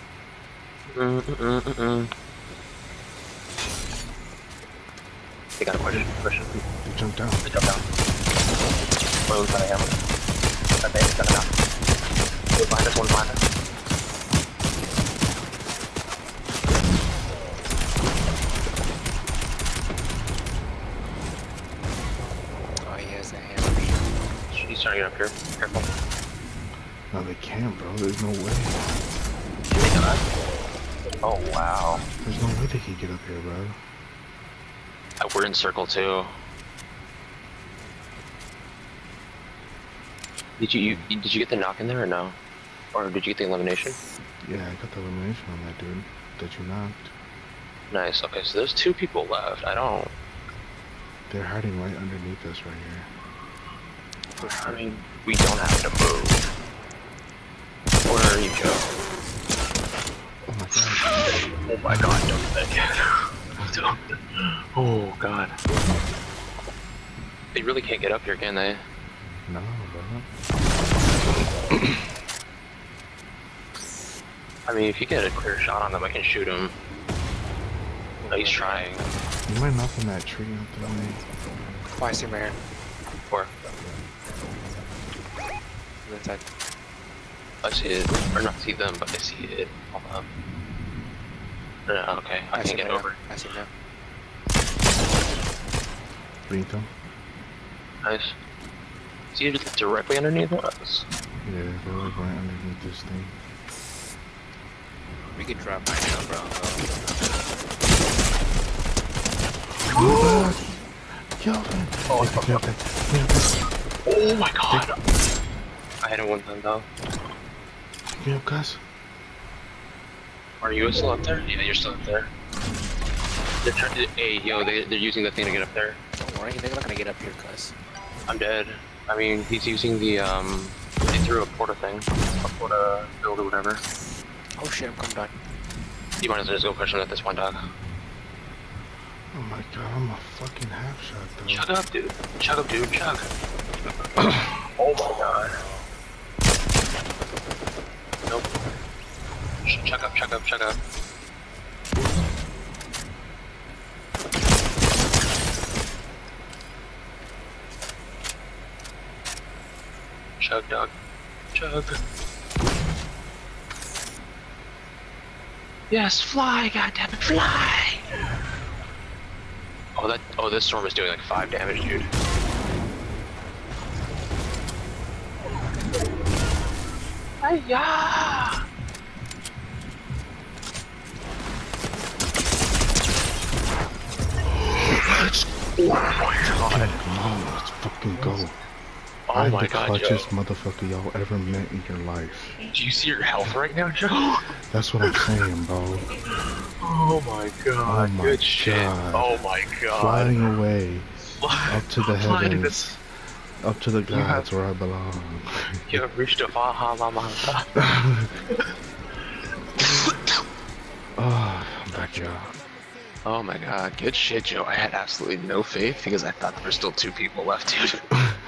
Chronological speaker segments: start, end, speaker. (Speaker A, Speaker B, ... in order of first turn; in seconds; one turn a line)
Speaker A: 0.9-2.1
Speaker A: 5.6-6.5
Speaker B: 5.9-7.5
Speaker A: 7.4-7.8
Speaker A: 9.3-10.0
Speaker A: 10.8-11.5
Speaker A: 12.5-13.4
Speaker C: 22.8-24.1
Speaker A: 24.5-25.9
Speaker B: 27.1-28.9
Speaker A: 29.7-30.2
Speaker A: 31.2-32.1
Speaker B: 32.2-33.8
Speaker A: 35.2-36.3
Speaker A: 40.6-42.4
Speaker B: 40.8-41.1
Speaker A: 42.9-44.0
Speaker B: 44.4-47.1
Speaker A: 47.9-50.2
Speaker B: 51.3-53.1
Speaker C: 54.4-54.9
Speaker A: 54.4-56.5
Speaker A: 58.1-58.9
Speaker B: 60.5-61.1
Speaker A: 61.0-65.5
Speaker B: 61.9-62.2
Speaker A: 67.5-68.8
Speaker B: 69.5-70.3
Speaker A: 74.7-76.8
Speaker C: 78.2-79.0
Speaker A: 78.3-79.1
Speaker B: 79.5-81.2
Speaker C: 82.0-82.6
Speaker C: 86.0-86.5
Speaker A: 87.6-90.3
Speaker A: 91.9-93.2
Speaker C: 92.5-93.7
Speaker B: 96.5-96.9
Speaker A: 98.0-98.3
Speaker A: 99.3-101.1
Speaker B: 101.4-103.4
Speaker C: 105.3-107.2
Speaker B: 109.8-110.8
Speaker A: 109.9-110.5
Speaker B: 111.3-113.7
Speaker A: 112.1-112.6
Speaker A: 114.1-115.0
Speaker A: 116.0-116.9
Speaker B: 118.1-118.8
Speaker A: 120.6-122.3
Speaker A: 123.6-126.0
Speaker C: 126.2-127.8
Speaker A: 128.3-133.8
Speaker C: 134.6-135.4
Speaker A: 136.2-137.6
Speaker B: 139.3-141.7
Speaker A: 141.5-143.3
Speaker A: 144.8-145.6
Speaker A: 149.7-150.8
Speaker A: 160.4-160.9
Speaker A: 161.5-162.0
Speaker A: 165.9-168.0
Speaker A: 170.0-172.1
Speaker A: 177.4-178.6
Speaker A: 184.7-187.0
Speaker B: 186.7-188.6
Speaker A: 189.3-190.3
Speaker B: 189.3-192.6
Speaker A: 192.7-194.5
Speaker B: 194.7-196.1
Speaker A: 196.8-200.3
Speaker B: 197.8-199.3
Speaker B: 199.9-203.0
Speaker A: 201.4-202.8
Speaker B: 203.6-205.9
Speaker A: 204.1-204.5
Speaker A: 205.9-207.7
Speaker B: 207.8-208.3
Speaker B: 211.2-212.5
Speaker A: 213.2-218.1